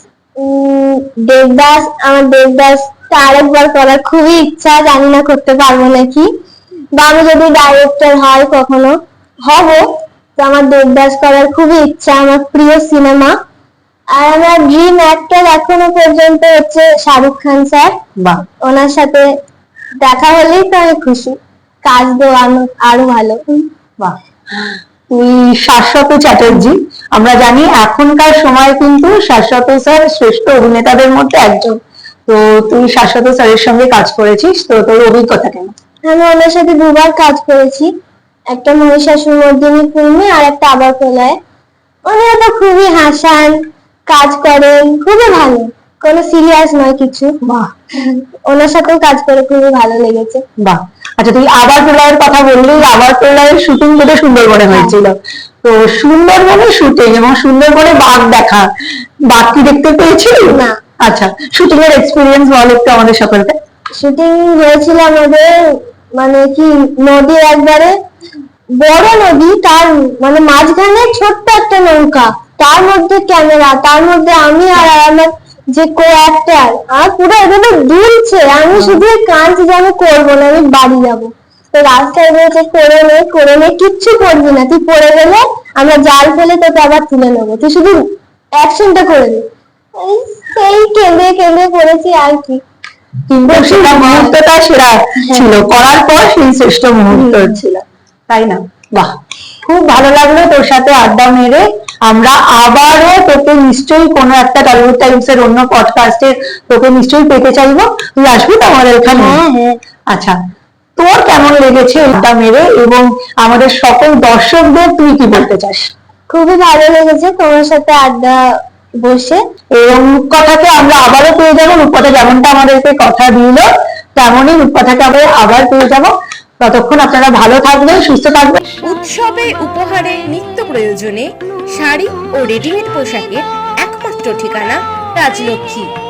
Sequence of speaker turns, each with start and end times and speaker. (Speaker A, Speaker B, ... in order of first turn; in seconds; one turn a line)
Speaker A: 0.4-6.3
Speaker A: 7.0-13.3
Speaker A: 14.1-17.9
Speaker B: 18.2-18.4
Speaker A: 18.6-19.3
Speaker A: 20.0-23.7
Speaker B: 24.0-35.7
Speaker A: 36.0-37.9
Speaker A: 38.5-41.4
Speaker A: 42.1-47.4
Speaker B: 47.4-47.7
Speaker A: 48.0-50.4
Speaker B: 50.6-58.7
Speaker B: 59.3-63.5
Speaker A: 60.5-60.8
Speaker A: 64.0-68.0
Speaker A: 68.8-88.0
Speaker A: 88.6-89.4
Speaker A: 90.0-92.6
Speaker B: 93.3-109.4
Speaker A: 93.6-94.3
Speaker A: 97.1-97.6
Speaker A: 109.1-109.8
Speaker B: 110.1-110.4
Speaker B: 111.0-115.9
Speaker A: 116.3-118.4
Speaker A: 119.0-119.4
Speaker B: 119.8-128.6
Speaker C: 128.9-135.9